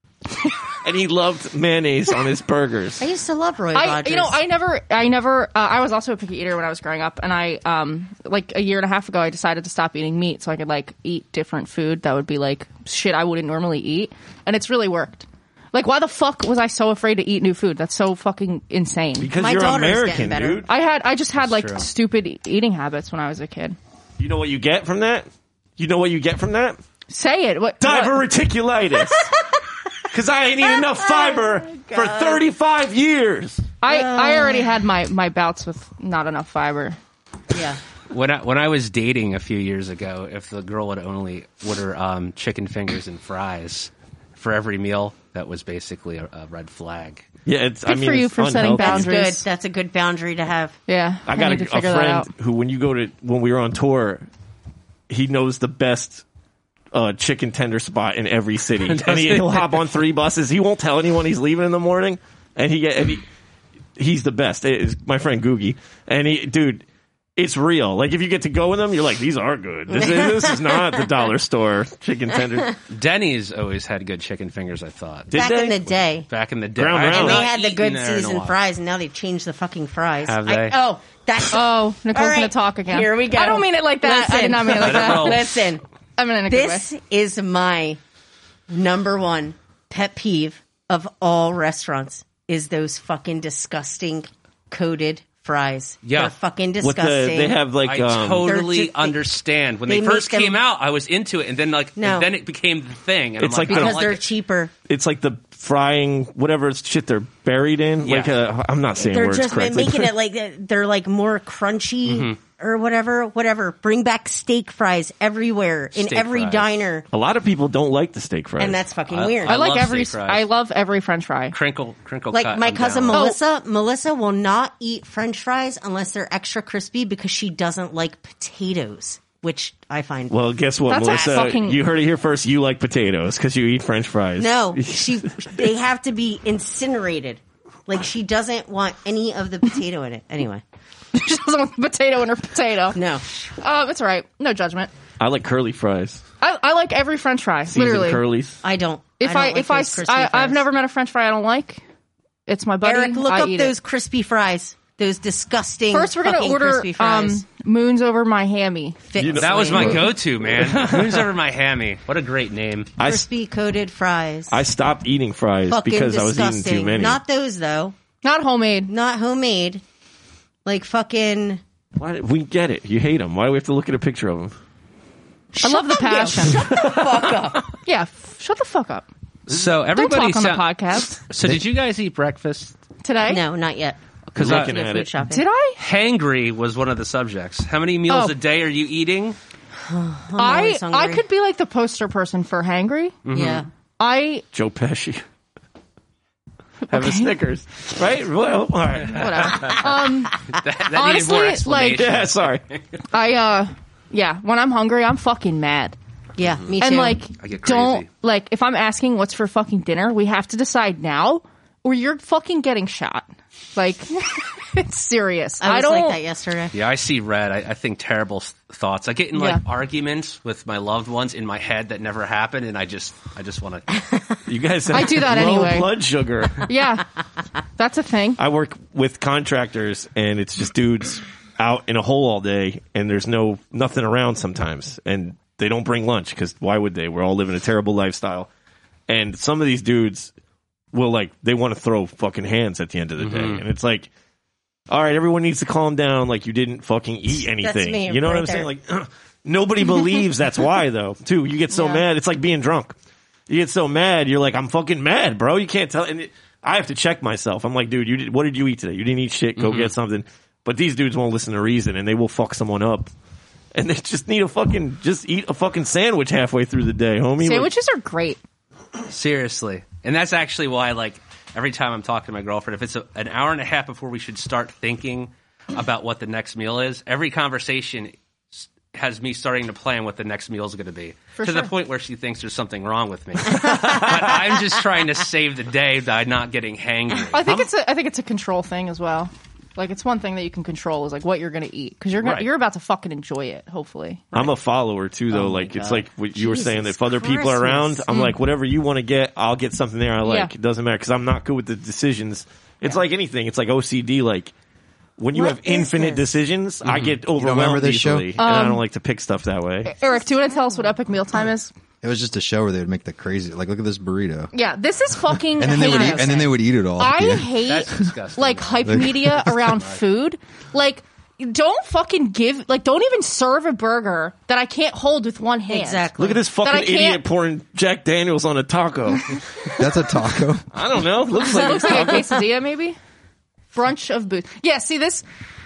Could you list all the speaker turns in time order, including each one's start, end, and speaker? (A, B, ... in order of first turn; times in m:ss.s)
0:00.3-0:00.6 A
0:00.8-0:03.0 B
0:03.0-0:04.4 C
0:03.7-0:19.3 A
0:19.2-0:20.7 B
0:19.4-0:20.6 C
0:20.7-0:23.8 A
0:21.4-0:21.9 D
0:24.2-0:26.8 B
0:27.1-0:28.2 A
0:27.8-0:29.3 B
0:30.1-0:33.7 B
0:30.7-0:32.4 C
0:33.8-0:37.0 A
0:33.9-0:34.8 C
0:37.5-0:37.8 C
0:38.1-0:47.3 D
0:47.5-0:49.1 B
0:47.9-0:49.4 A
0:48.6-0:50.8 C
0:50.9-0:52.3 A
0:51.3-0:54.3 B
0:55.1-0:56.2 B
0:56.9-1:03.2 B
0:58.8-0:59.8 D
1:04.0-1:06.8 B
1:07.4-1:12.8 B
1:09.9-1:11.1 C
1:12.9-1:15.3 D
1:15.3-1:15.8 B
1:15.3-1:16.3 C
1:16.3-1:18.6 D
1:16.8-1:17.5 B
1:17.1-1:25.8 C
1:20.2-1:20.8 D
1:21.5-1:25.6 A
1:24.7-1:25.5 D
1:26.2-1:26.8 A
1:26.5-1:28.0 C
1:28.7-1:37.6 C
1:36.0-1:36.3 D
1:36.8-1:38.5 B
1:37.8-1:44.2 D
1:38.4-1:39.2 C
1:39.9-1:40.6 C
1:42.0-1:42.3 C
1:43.4-1:44.2 B
1:43.7-1:44.7 C
1:44.9-1:50.1 B
1:48.0-1:48.4 D
1:49.0-1:57.1 C
1:52.1-1:52.4 D
1:56.0-1:56.7 D
1:57.1-1:58.8 B
1:58.6-1:59.6 C
1:59.1-2:00.5 D
1:59.5-2:01.6 A
2:01.5-2:03.2 D
2:02.3-2:10.4 C
2:03.1-2:03.4 A
2:10.3-2:15.5 B
2:10.9-2:11.8 A
2:11.0-2:11.6 C
2:14.4-2:20.6 C
2:21.1-2:23.0 A
2:22.9-2:23.5 C
2:23.6-2:24.9 A
2:25.2-2:26.2 B
2:26.4-2:28.2 A
2:27.7-2:28.6 B
2:28.6-2:30.6 C
2:29.2-2:31.8 A
2:32.5-2:33.7 A
2:32.8-2:37.4 C
2:35.9-2:39.0 A
2:39.1-2:40.1 C
2:39.2-2:41.2 B
2:39.4-2:42.9 D
2:43.0-2:43.3 B
2:43.0-2:44.6 C
2:44.5-2:47.2 B
2:45.7-2:48.0 C
2:48.2-2:48.9 A
2:48.9-2:49.8 C
2:50.6-2:51.6 C
2:52.0-2:54.6 B
2:55.5-2:57.7 C
2:55.6-2:56.6 A
2:56.5-2:57.6 B
2:57.9-2:59.1 A
2:59.5-3:02.8 D
2:59.9-3:01.2 A
3:03.0-3:03.4 A
3:03.2-3:05.5 C
3:04.3-3:04.7 D
3:04.4-3:05.1 B
3:05.2-3:05.8 A
3:05.8-3:09.4 D
3:08.1-3:08.4 A
3:09.8-3:11.2 C
3:10.4-3:13.2 A
3:13.2-3:13.7 D
3:13.3-3:13.7 C
3:14.0-3:14.4 A
3:14.5-3:15.2 B
3:16.9-3:17.4 A
3:16.9-3:19.9 B
3:19.1-3:22.1 A
3:20.4-3:23.0 D
3:22.0-3:22.6 B
3:23.1-3:26.0 A
3:26.4-3:27.2 C
3:26.8-3:36.2 A
3:27.4-3:28.1 D
3:35.6-3:36.7 C
3:36.7-3:43.9 D
3:44.5-3:46.7 B
3:44.9-3:45.9 A
3:46.6-3:47.1 A
3:47.8-3:48.4 A
3:48.4-3:58.5 B
3:59.1-4:00.3 B
4:00.9-4:04.1 B
4:03.2-4:03.6 D
4:04.9-4:13.0 B
4:07.4-4:08.7 C
4:13.5-4:23.1 B
4:19.6-4:19.9 D
4:23.7-4:27.7 B
4:27.4-4:28.4 A
4:29.1-4:47.7 D
4:41.4-4:41.7 A
4:47.3-4:54.5 A
4:52.2-4:52.5 D
4:54.3-5:04.5 B
4:55.3-4:58.1 C
4:58.1-4:58.4 A
5:00.2-5:00.5 A
5:05.2-5:10.0 B
5:05.3-5:06.3 C
5:06.9-5:07.1 D
5:07.3-5:08.4 E
5:08.4-5:08.8 A
5:09.9-5:11.7 A
5:12.0-5:14.5 E
5:14.5-5:26.1 A
5:15.4-5:17.6 E
5:17.6-5:20.0 D
5:18.8-5:19.4 E
5:25.7-5:26.4 C
5:26.2-5:29.8 B
5:26.6-5:27.2 A
5:29.8-5:30.7 E
5:30.7-5:32.3 B
5:31.4-5:33.0 A
5:33.7-5:35.2 A